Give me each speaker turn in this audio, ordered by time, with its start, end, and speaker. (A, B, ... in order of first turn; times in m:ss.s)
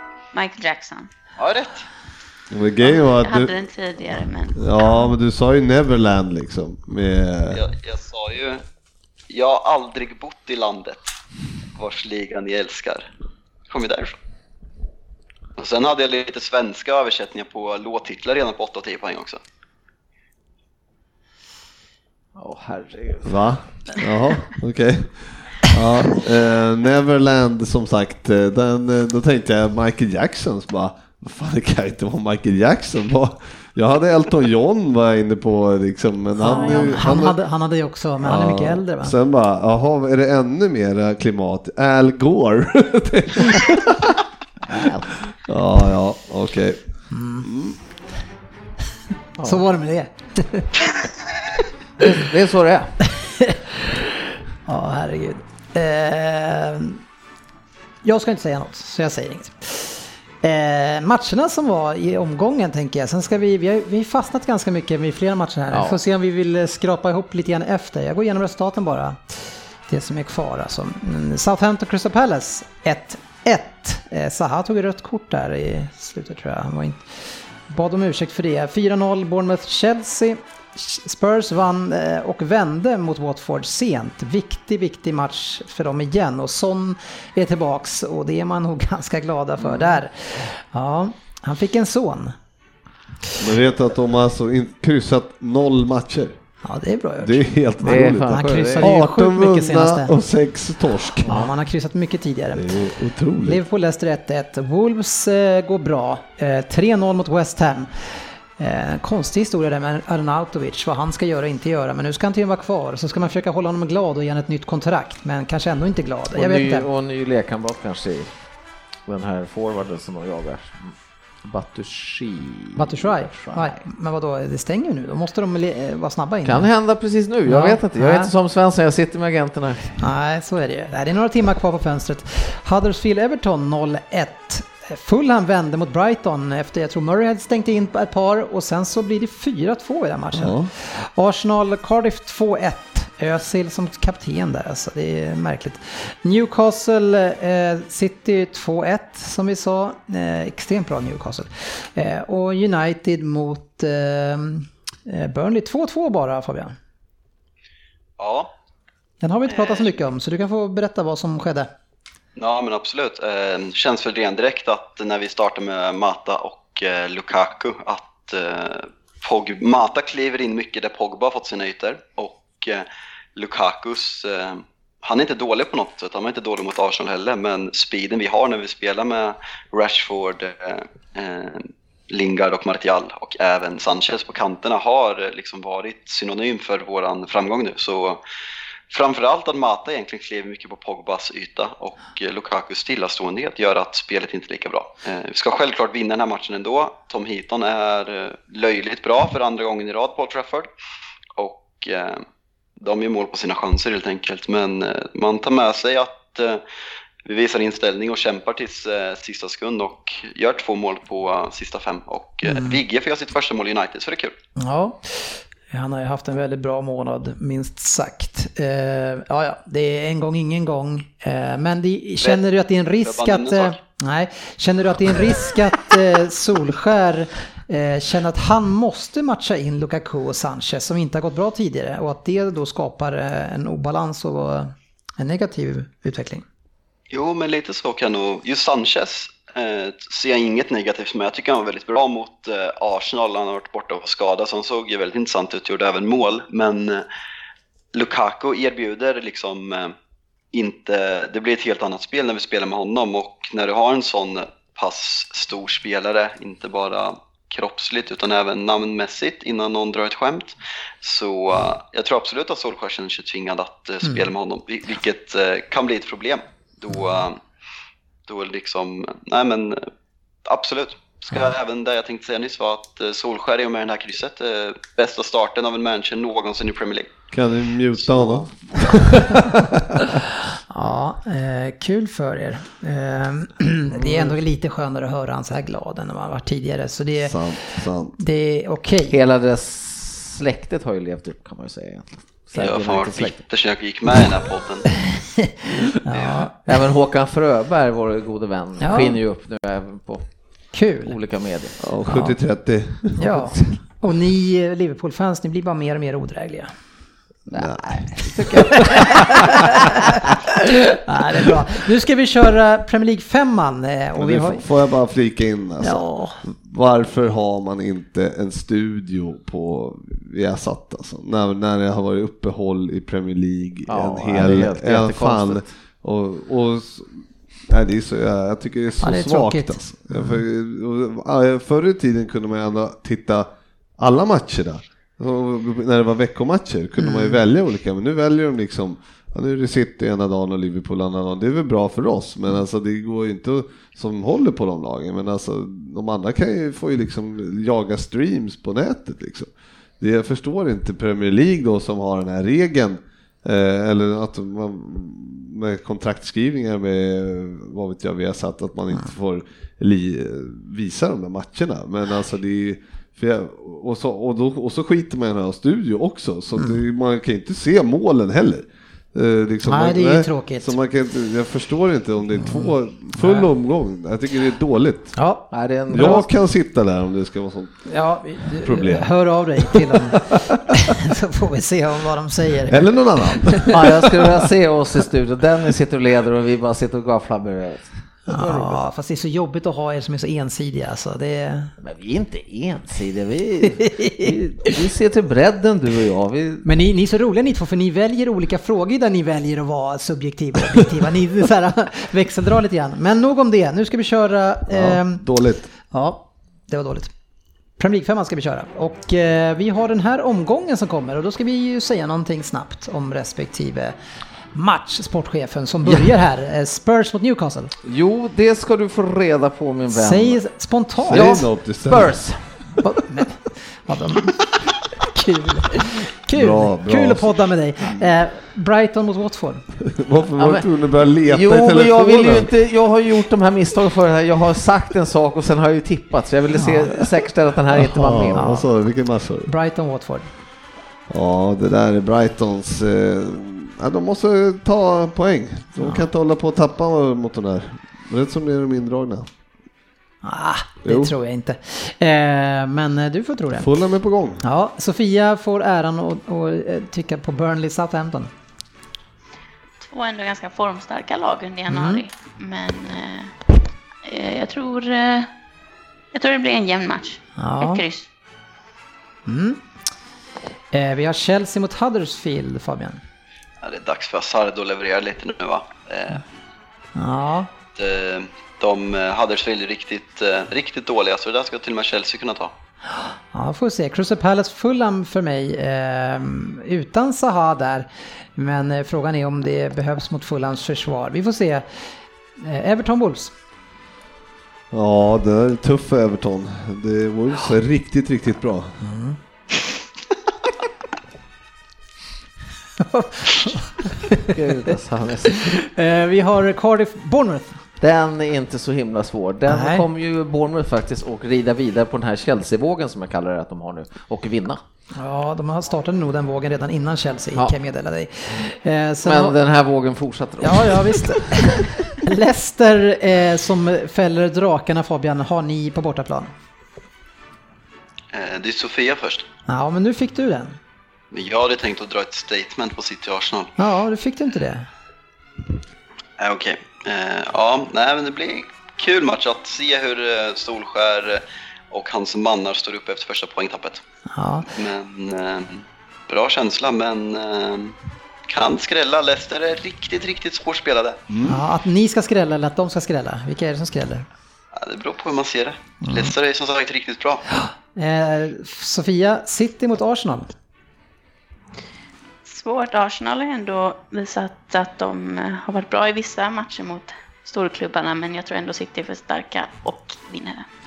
0:00.3-0:01.1 A
0:01.4-0:01.9 B
0:02.5-0:03.5 C
0:02.8-0:05.0 A
0:04.6-0:07.6 C
0:07.5-0:08.6 B
0:09.3-0:11.1 B
0:11.8-0:13.1 B
0:13.7-0:14.2 B
0:15.6-0:19.4 B
0:22.4-0:23.5 D
0:23.2-0:37.4 C
0:36.4-0:39.2 E
0:38.2-0:44.2 C
0:44.7-0:45.2 D
0:45.4-0:46.8 C
0:47.1-0:47.5 E
0:47.4-0:47.8 C
0:49.4-0:50.7 E
0:52.0-0:52.9 D
0:53.1-0:53.6 E
0:54.7-0:57.0 E
0:58.0-1:32.4 E
1:05.7-1:06.0 D
1:29.6-1:30.0 D
1:33.4-1:36.4 C
1:36.6-1:40.2 E
1:37.2-1:41.4 C
1:37.8-1:38.9 D
1:41.3-1:42.8 E
1:42.5-1:43.6 C
1:43.4-1:56.9 E
1:56.3-1:58.4 D
1:59.1-2:03.8 D
2:02.8-2:06.7 E
2:06.4-2:10.0 D
2:07.5-2:08.3 E
2:10.0-2:36.8 E
2:20.3-2:20.7 C
2:38.2-2:38.5 B
2:39.2-2:41.7 E
2:39.5-2:39.9 B
2:42.4-3:08.2 B
3:08.9-3:20.7 B
3:21.4-3:22.2 B
3:22.8-3:26.6 B
3:27.2-3:34.3 B
3:32.5-3:32.8 E
3:34.6-3:56.4 E
3:43.0-3:43.8 B
3:57.1-4:07.0 B
4:07.9-4:09.9 B
4:10.5-4:27.4 B
4:28.3-4:29.8 B
4:30.5-4:37.1 B
4:37.3-4:40.0 C
4:38.0-4:38.4 B
4:40.7-4:49.2 E
4:43.9-4:44.4 D
4:47.2-4:48.1 C
4:49.1-4:53.4 D
4:52.6-4:54.9 B
4:56.0-4:56.6 E
4:56.7-5:00.3 D
4:58.8-4:59.2 E
5:00.7-5:01.1 E
5:01.0-5:01.8 D
5:01.8-5:03.2 C
5:02.0-5:02.4 E
5:03.2-5:06.7 E
5:03.3-5:03.8 D
5:07.5-5:09.9 D
5:07.5-5:08.2 C
5:08.5-5:14.6 E
5:14.2-5:33.5 C
5:15.8-5:16.4 E
5:23.9-5:25.6 D
5:29.0-5:30.4 E
5:34.0-6:15.2 C
5:37.0-5:37.4 E
6:09.7-6:10.7 E
6:12.4-6:13.5 E
6:15.2-6:15.5 E
6:15.5-6:16.3 D
6:15.9-6:17.9 C
6:17.9-6:23.8 E
6:18.5-6:20.6 C
6:22.7-6:24.0 C
6:23.7-6:28.8 D
6:28.3-6:31.7 E
6:31.8-6:36.7 D
6:33.8-6:34.3 E
6:36.6-6:45.2 E
6:44.7-6:45.7 C
6:45.9-6:47.1 E
6:47.8-6:54.0 E
6:54.5-6:57.7 E
6:55.9-6:56.1 D
6:57.8-7:00.4 D
6:59.9-7:01.5 E
7:01.1-7:02.2 C
7:01.1-7:02.7 D
7:02.8-7:09.7 E
7:06.3-7:07.3 C
7:09.9-7:12.5 C
7:10.4-7:10.7 D
7:11.2-7:18.6 D
7:16.6-7:17.0 E
7:17.8-7:19.5 C
7:18.3-7:18.7 E
7:19.4-7:20.3 E
7:21.1-7:29.3 C
7:25.8-7:26.1 E
7:30.2-7:33.7 E
7:30.8-7:31.1 C
7:33.6-7:34.4 C
7:34.4-7:38.3 E
7:39.8-7:43.4 A
7:41.7-7:42.0 E
7:44.0-7:45.3 A
7:46.1-7:48.1 A
7:47.4-7:47.8 E
7:49.3-7:49.6 E
7:50.7-7:53.0 E
7:53.6-7:56.2 B
7:57.0-7:57.5 E
7:57.8-8:02.5 B
8:02.9-8:13.3 E
8:14.7-8:18.8 C
8:18.8-8:19.2 E
8:22.8-8:24.3 E
8:24.2-8:25.5 D
8:25.5-8:27.6 E
8:27.8-8:34.6 D
8:29.5-8:29.8 E
8:35.0-8:39.4 E
8:39.0-8:41.7 D
8:40.4-8:46.3 E
8:48.1-8:49.3 B
8:49.5-8:50.6 E
8:51.1-8:53.5 B
8:53.6-8:54.7 E
8:56.2-9:03.8 B
9:04.1-9:04.5 E
9:04.5-9:07.8 B
9:08.3-9:11.0 B
9:11.1-9:11.4 C
9:11.2-9:14.1 E
9:14.5-9:17.2 B
9:15.8-9:16.1 E
9:17.3-9:20.3 E
9:22.2-9:30.5 A